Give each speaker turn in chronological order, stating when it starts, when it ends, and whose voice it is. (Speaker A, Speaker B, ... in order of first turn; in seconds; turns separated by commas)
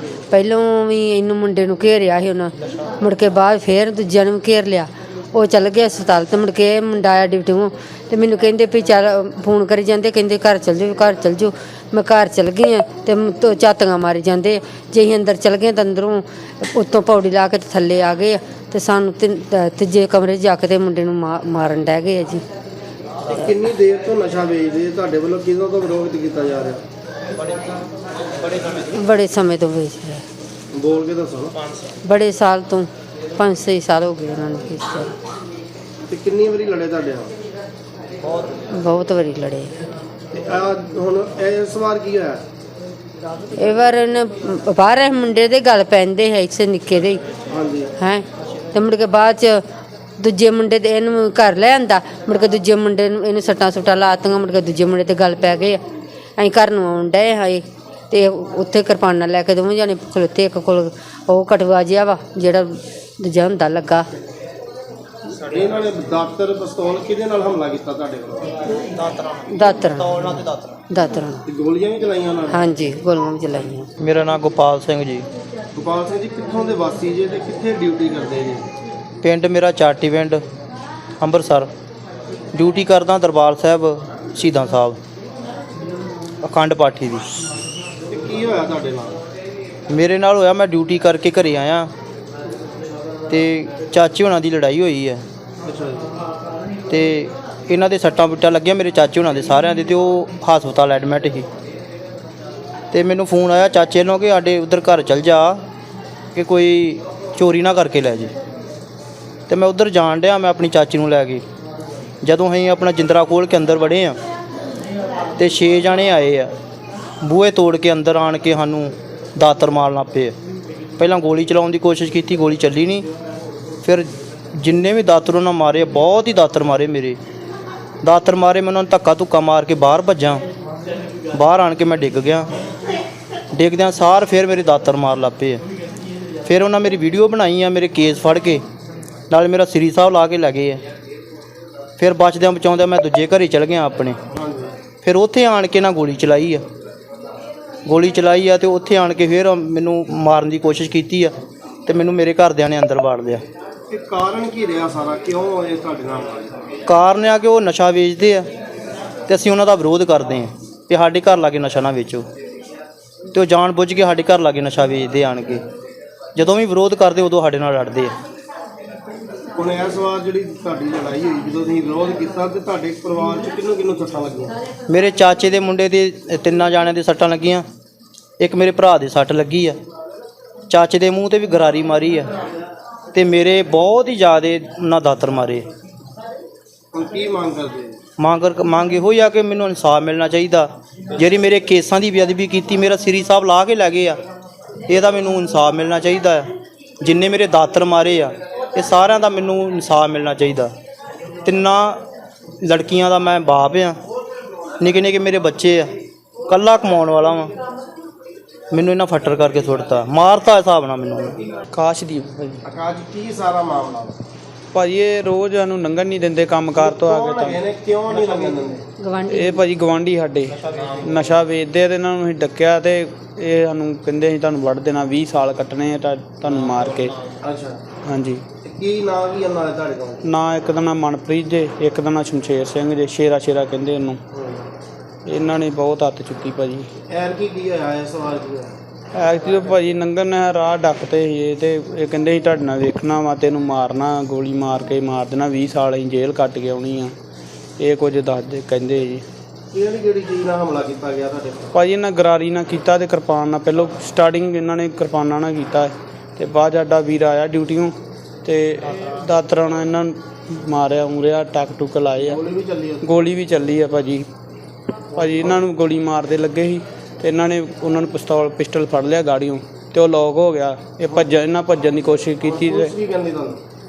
Speaker A: 0.3-22.4, Speaker B: 23.3-26.8, Speaker C: 28.4-28.7, Speaker A: 28.9-30.2, Speaker B: 30.7-31.5, Speaker A: 32.0-35.1, Speaker B: 36.1-37.3, Speaker A: 38.7-39.8, Speaker B: 40.3-42.4, Speaker A: 43.5-47.2, Speaker B: 47.5-47.9, Speaker A: 48.0-49.6, Speaker A: 50.2-55.8, Speaker A: 56.4-64.0, Speaker B: 65.4-68.6, Speaker C: 68.7-70.8, Speaker A: 69.5-70.3, Speaker A: 70.9-71.4, Speaker B: 71.5-72.6, Speaker A: 72.5-73.9, Speaker C: 74.0-75.2, Speaker B: 75.7-78.7, Speaker C: 79.2-80.4, Speaker C: 81.2-81.7, Speaker C: 82.5-85.0, Speaker C: 86.4-87.2, Speaker B: 88.1-89.2, Speaker C: 89.9-91.9, Speaker C: 93.3-95.2, Speaker B: 95.6-96.1, Speaker C: 96.9-101.5, Speaker C: 102.9-105.6, Speaker C: 106.3-108.3, Speaker C: 109.5-111.4, Speaker C: 112.2-114.2, Speaker C: 115.4-116.5, Speaker C: 117.2-120.3, Speaker C: 121.0-123.0, Speaker C: 123.8-127.2, Speaker C: 128.0-130.4, Speaker C: 131.3-132.4, Speaker C: 133.5-135.6, Speaker C: 136.4-138.6, Speaker C: 139.3-140.8, Speaker C: 142.0-144.2, Speaker B: 144.3-144.8, Speaker C: 145.0-146.6, Speaker C: 147.8-151.3, Speaker C: 151.8-153.4, Speaker B: 153.9-156.7, Speaker C: 156.9-158.4, Speaker C: 159.3-162.2, Speaker C: 163.3-165.6, Speaker C: 166.3-168.1, Speaker B: 169.6-174.6, Speaker C: 174.9-177.6, Speaker C: 178.4-179.8, Speaker C: 180.7-182.3, Speaker C: 183.1-185.6, Speaker B: 186.9-188.0, Speaker C: 188.2-194.2, Speaker C: 194.9-196.5, Speaker C: 197.0-200.7, Speaker C: 201.4-202.0, Speaker C: 202.6-204.0, Speaker C: 204.8-205.9, Speaker C: 206.5-207.5, Speaker C: 208.7-211.4, Speaker D: 211.7-212.6, Speaker B: 212.6-214.2, Speaker D: 214.7-217.6, Speaker B: 216.8-218.8, Speaker A: 219.0-219.6, Speaker D: 219.3-227.2, Speaker B: 226.5-226.8, Speaker B: 227.4-227.8, Speaker D: 228.1-228.4, Speaker B: 228.6-230.2, Speaker D: 230.2-234.2, Speaker B: 234.3-234.6, Speaker D: 235.2-236.9, Speaker B: 237.1-238.7, Speaker D: 239.1-247.1, Speaker D: 247.8-249.2, Speaker B: 249.7-251.7, Speaker D: 251.7-262.4, Speaker B: 262.2-263.2, Speaker D: 263.0-264.3, Speaker D: 265.1-272.9, Speaker B: 265.1-265.6, Speaker B: 272.4-273.6